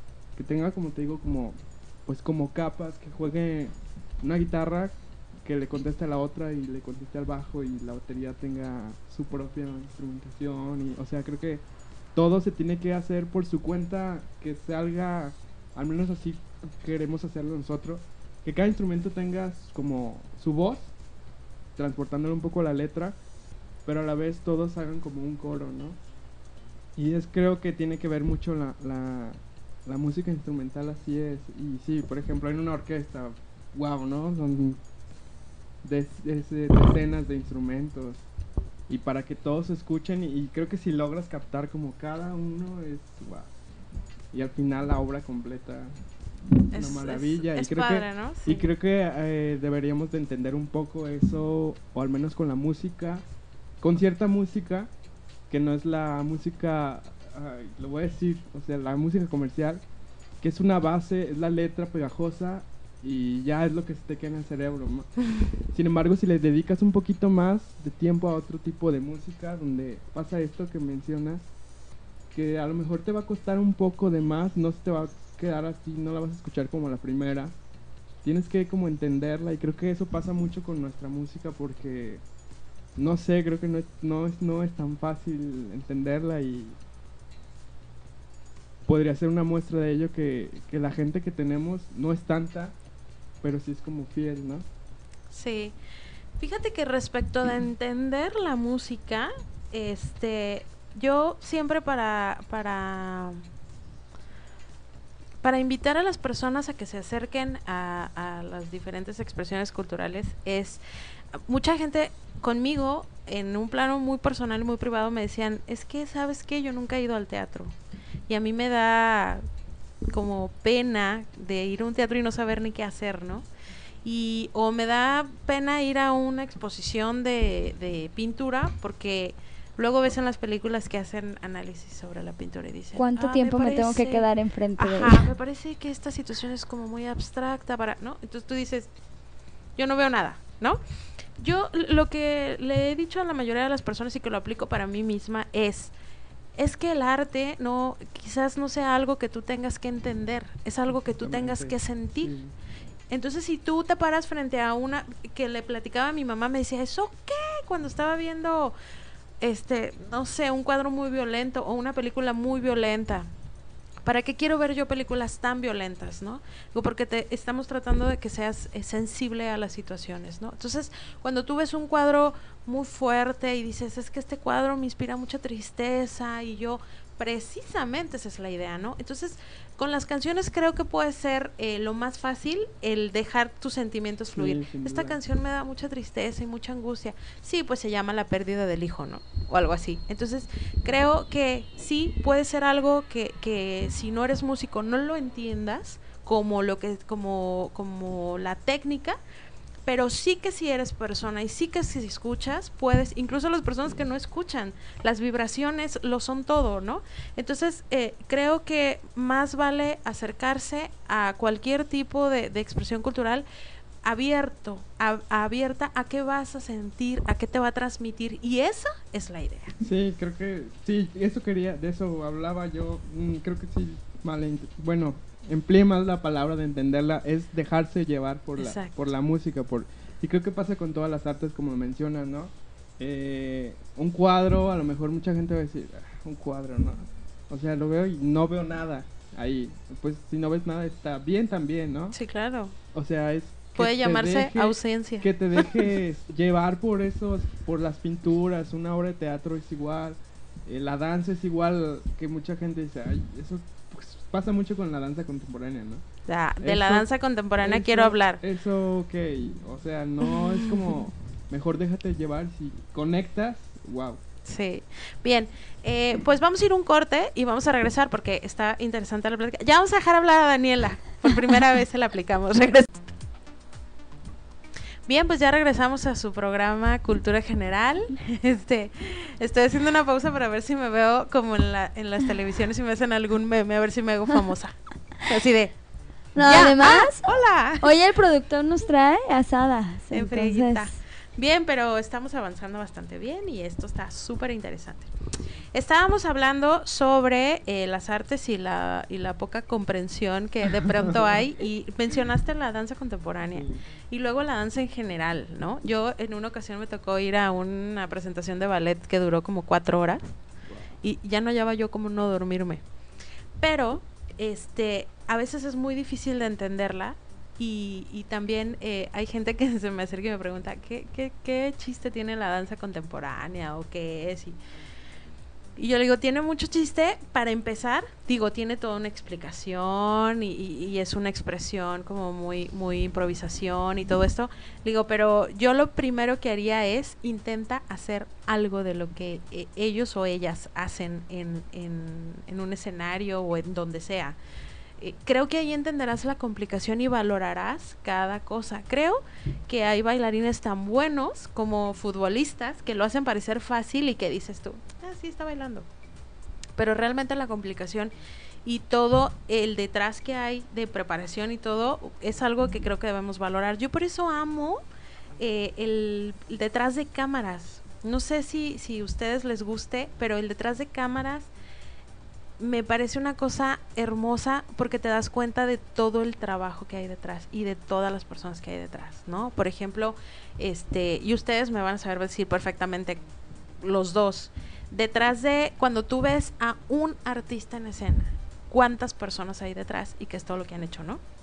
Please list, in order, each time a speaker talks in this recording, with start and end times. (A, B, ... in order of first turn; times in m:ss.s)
0:00.4-0:11.6 A
0:12.2-0:20.9 A
0:21.8-0:23.2 A
0:23.8-0:26.0 A
0:27.0-0:34.8 A
0:35.8-0:38.2 A
0:38.9-0:43.5 A
0:44.3-0:45.9 A
0:46.7-0:48.7 B
0:46.7-0:53.2 A
0:53.8-0:54.9 A
0:55.5-0:59.8 A
1:00.4-1:11.5 A
1:12.3-1:17.6 A
1:18.2-1:22.2 A
1:23.0-1:26.8 A
1:28.9-1:32.8 A
1:33.4-1:34.7 A
1:35.3-1:35.8 B
1:36.4-1:43.4 B
1:45.4-1:50.8 B
1:51.3-1:57.8 B
1:58.3-1:59.4 B
2:00.1-2:03.5 B
2:04.0-2:18.9 B
2:13.0-2:15.2 C
2:19.8-2:20.8 B
2:21.4-2:26.0 B
2:26.6-2:32.3 B
2:30.9-2:32.6 A
2:33.1-2:38.8 B
2:39.4-2:43.3 B
2:44.0-3:19.2 B
3:04.3-3:05.2 A
3:19.8-3:33.5 B
3:34.0-3:39.8 B
3:39.8-4:02.2 A
3:48.6-3:48.9 B
4:02.1-4:02.8 B
4:02.9-4:16.0 A
4:03.8-4:06.0 B
4:16.3-4:18.4 B
4:16.6-4:17.1 A
4:17.6-4:24.2 A
4:24.4-4:32.9 B
4:35.1-4:45.8 B
4:46.4-4:50.9 C
4:46.4-4:48.0 B
4:50.1-4:55.1 B
4:55.7-5:10.2 B
5:00.8-5:01.4 A
5:03.5-5:03.8 A
5:10.7-5:10.9 A
5:11.0-5:12.8 B
5:13.6-5:24.6 B
5:25.8-5:44.4 B
5:45.0-5:55.9 B
5:56.8-5:58.1 B
5:58.6-6:04.8 B
6:05.4-6:11.5 B
6:12.6-6:23.2 B
6:23.8-6:31.2 B